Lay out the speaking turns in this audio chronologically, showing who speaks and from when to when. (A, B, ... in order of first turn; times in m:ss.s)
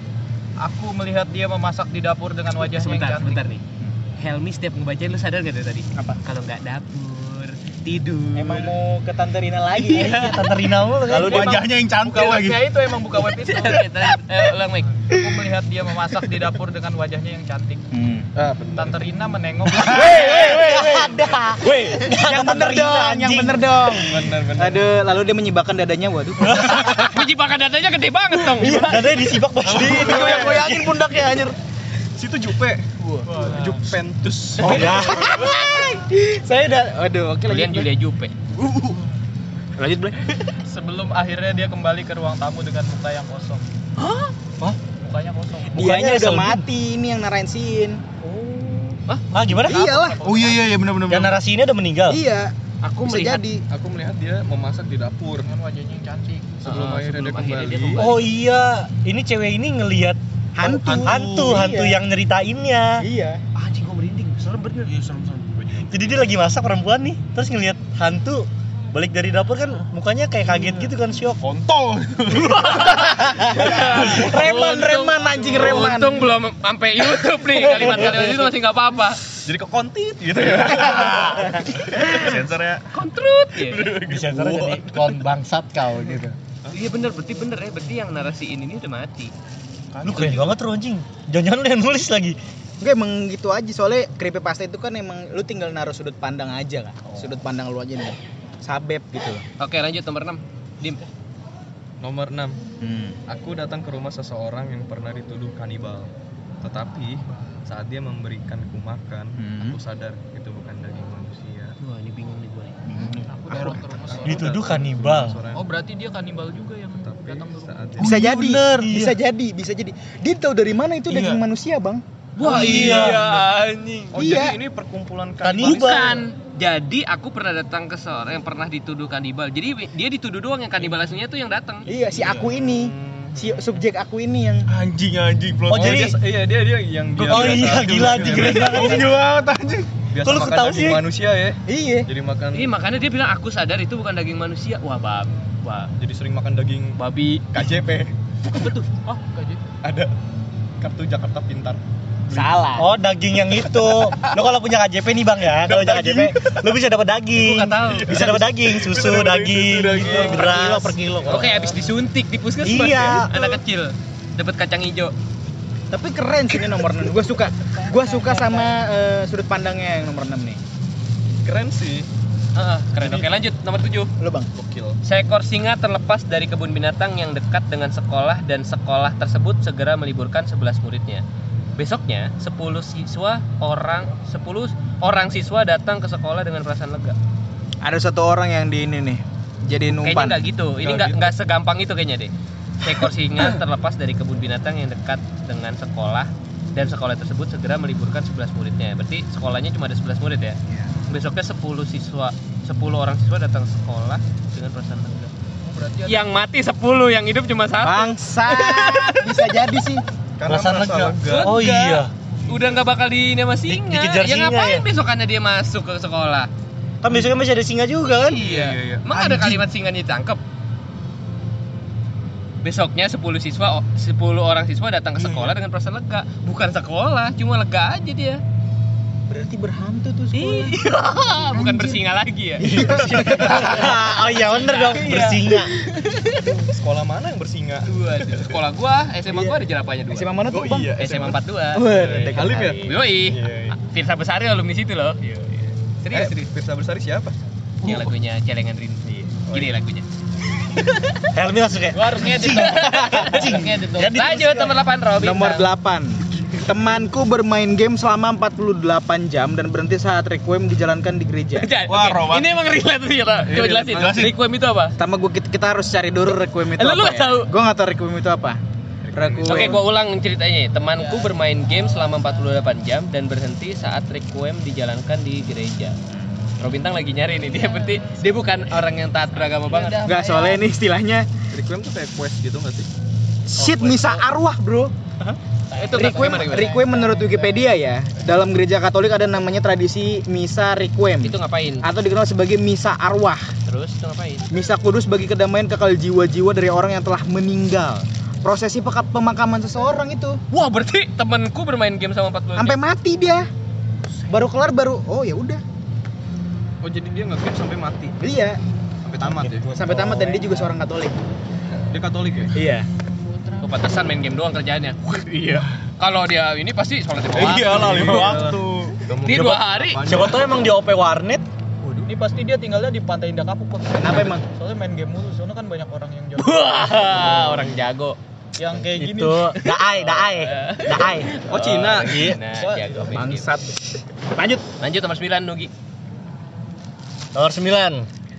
0:00.6-0:03.4 A
0:02.7-0:03.6 B
0:04.2-0:08.8 B
0:08.4-0:10.5 C
0:09.9-0:10.4 B
0:09.9-0:11.5 D
0:11.1-0:11.6 C
0:11.1-0:13.9 A
0:11.1-0:12.7 E
0:13.3-0:15.0 B
0:15.0-0:17.9 A
0:17.9-0:18.3 C
0:18.4-0:19.0 F
0:18.8-0:20.6 A
0:19.8-0:21.3 C
0:19.8-0:23.7 D
0:21.7-0:22.0 F
0:22.0-0:27.2 C
0:23.9-0:24.9 F
0:26.4-0:27.0 D
0:26.6-0:29.1 B
0:28.6-0:31.1 D
0:29.7-0:30.0 E
0:29.8-0:31.3 F
0:29.8-0:31.5 C
0:32.2-0:35.0 F
0:33.3-0:33.9 A
0:34.6-0:35.4 D
0:34.6-0:37.9 C
0:37.5-0:38.4 B
0:38.6-0:38.9 C
0:39.8-0:40.2 C
0:40.6-0:43.6 A
0:44.0-0:44.3 B
0:45.0-0:45.8 A
0:45.7-0:46.7 D
0:45.7-0:48.0 C
0:48.2-0:49.2 B
0:49.3-0:49.9 D
0:49.6-0:50.3 C
0:49.7-0:50.6 A
0:50.2-0:51.4 E
0:51.1-0:52.2 D
0:52.1-0:52.5 C
0:52.8-0:53.4 B
0:53.0-0:53.6 C
0:53.7-0:55.5 F
0:55.4-0:56.7 A
0:56.6-0:58.2 F
0:56.6-0:58.3 B
0:58.0-1:00.2 D
1:00.6-1:02.0 C
1:00.6-1:01.7 E
1:01.0-1:03.1 D
1:03.0-1:03.4 C
1:03.6-1:04.9 B
1:04.8-1:06.0 E
1:05.8-1:11.4 D
1:11.4-1:13.0 E
1:12.3-1:19.2 B
1:13.0-1:16.3 C
1:19.4-1:21.5 F
1:20.9-1:22.9 E
1:21.9-1:22.4 B
1:22.9-1:24.0 B
1:23.6-1:25.2 F
1:24.0-1:26.4 D
1:26.7-1:29.3 B
1:29.9-1:30.6 E
1:30.0-1:32.4 D
1:32.8-1:39.4 C
1:39.6-1:41.0 B
1:42.0-1:42.6 F
1:42.8-1:43.2 C
1:43.3-1:46.1 F
1:46.6-1:51.8 F
1:49.4-1:49.8 C
1:51.8-1:52.8 B
1:52.9-1:53.3 C
1:53.2-1:54.5 A
1:53.5-1:53.9 E
1:54.0-1:55.7 F
1:54.3-1:55.4 D
1:55.5-1:57.8 A
1:57.0-1:58.1 F
1:58.0-2:02.0 C
1:58.0-1:58.8 E
1:58.0-1:59.2 D
2:01.1-2:01.4 E
2:02.4-2:04.2 B
2:02.4-2:03.2 D
2:02.6-2:03.4 F
2:04.1-2:06.2 F
2:04.2-2:04.6 C
2:05.4-2:06.2 D
2:05.6-2:11.9 B
2:10.8-2:11.1 F
2:11.9-2:14.7 C
2:12.1-2:13.6 F
2:14.7-2:16.1 E
2:15.7-2:16.2 D
2:15.7-2:19.2 F
2:17.2-2:19.2 D
2:18.0-2:19.9 E
2:20.1-2:22.7 F
2:20.2-2:21.1 D
2:21.7-2:22.1 C
2:22.5-2:25.9 B
2:26.0-2:27.0 F
2:27.0-2:27.5 B
2:27.5-2:28.1 F
2:28.5-2:29.0 B
2:29.1-2:29.6 A
2:29.8-2:30.1 F
2:30.8-2:31.8 F
2:32.3-2:32.9 C
2:32.8-2:41.4 D
2:33.8-2:34.4 F
2:35.5-2:36.6 F
2:37.4-2:38.1 B
2:37.8-2:40.6 F
2:38.1-2:38.5 C
2:40.0-2:41.5 C
2:41.3-2:45.2 B
2:42.6-2:43.6 D
2:45.9-2:50.6 C
2:48.0-2:48.6 A
2:51.4-2:52.1 F
2:52.6-2:54.1 B
2:53.0-2:53.3 F
2:54.2-2:54.5 C
2:54.6-2:55.0 F
2:55.0-3:01.2 B
3:01.8-3:07.2 B
3:07.8-3:10.5 C
3:09.9-3:20.6 B
3:10.7-3:11.3 F
3:21.1-3:25.3 B
3:25.6-3:26.2 A
3:26.1-3:29.6 B
3:27.8-3:30.0 C
3:30.4-3:31.6 F
3:30.4-3:32.1 D
3:31.3-3:36.5 B
3:33.7-3:34.9 D
3:37.0-3:38.4 D
3:38.2-3:40.4 B
3:38.3-3:39.0 F
3:39.1-3:39.6 D
3:42.6-3:48.4 B
3:45.2-3:45.6 E
3:49.3-3:50.8 C
3:50.3-3:56.7 B
3:51.5-3:52.0 C
3:52.6-3:53.9 C
3:52.7-3:55.7 D
3:56.6-3:58.6 F
3:57.9-4:00.3 B
3:59.3-3:59.6 C
4:00.1-4:01.0 C
4:00.5-4:03.8 F
4:01.0-4:06.5 B
4:01.7-4:03.0 C
4:06.1-4:07.4 F
4:07.8-4:10.1 B
4:09.0-4:09.4 C
4:09.5-4:09.7 F
4:10.8-4:11.3 B
4:11.3-4:14.7 D
4:12.0-4:15.7 B
4:12.0-4:12.9 A
4:13.0-4:13.6 C
4:14.2-4:21.7 C
4:21.6-4:25.0 B
4:21.9-4:22.5 E
4:23.4-4:24.3 F
4:23.8-4:24.4 E
4:25.0-4:28.6 C
4:26.8-4:27.5 B
4:29.0-4:29.8 F
4:29.1-4:29.8 C
4:29.4-4:36.0 B
4:31.0-4:32.3 A
4:36.6-4:40.1 B
4:37.5-4:38.2 A
4:39.4-4:40.7 A
4:40.0-4:41.3 C
4:41.5-4:42.9 F
4:43.5-4:45.4 C
4:43.6-4:44.3 B
4:45.7-4:47.8 A
4:45.7-4:46.9 B
4:45.9-4:53.5 C
4:51.2-4:51.9 B
4:53.7-4:54.5 B
4:54.5-5:00.4 C
5:00.5-5:02.8 B
5:02.6-5:03.5 C
5:04.3-5:05.6 C
5:06.8-5:08.2 F
5:08.2-5:08.6 C
5:09.0-5:10.0 F
5:09.7-5:11.2 C
5:11.9-5:12.6 F
5:12.5-5:12.9 C
5:13.6-5:18.4 B
5:17.3-5:20.4 F
5:17.4-5:18.9 E
5:19.2-5:20.0 B
5:19.3-5:21.4 D
5:22.0-5:26.6 A
5:24.0-5:24.4 C
5:26.4-5:28.2 B
5:28.6-5:29.6 A
5:28.9-5:31.3 D
5:29.7-5:33.5 B
5:31.5-5:33.2 F
5:32.0-5:32.4 D
5:33.1-5:34.6 C
5:34.8-5:35.7 B
5:37.3-5:38.1 D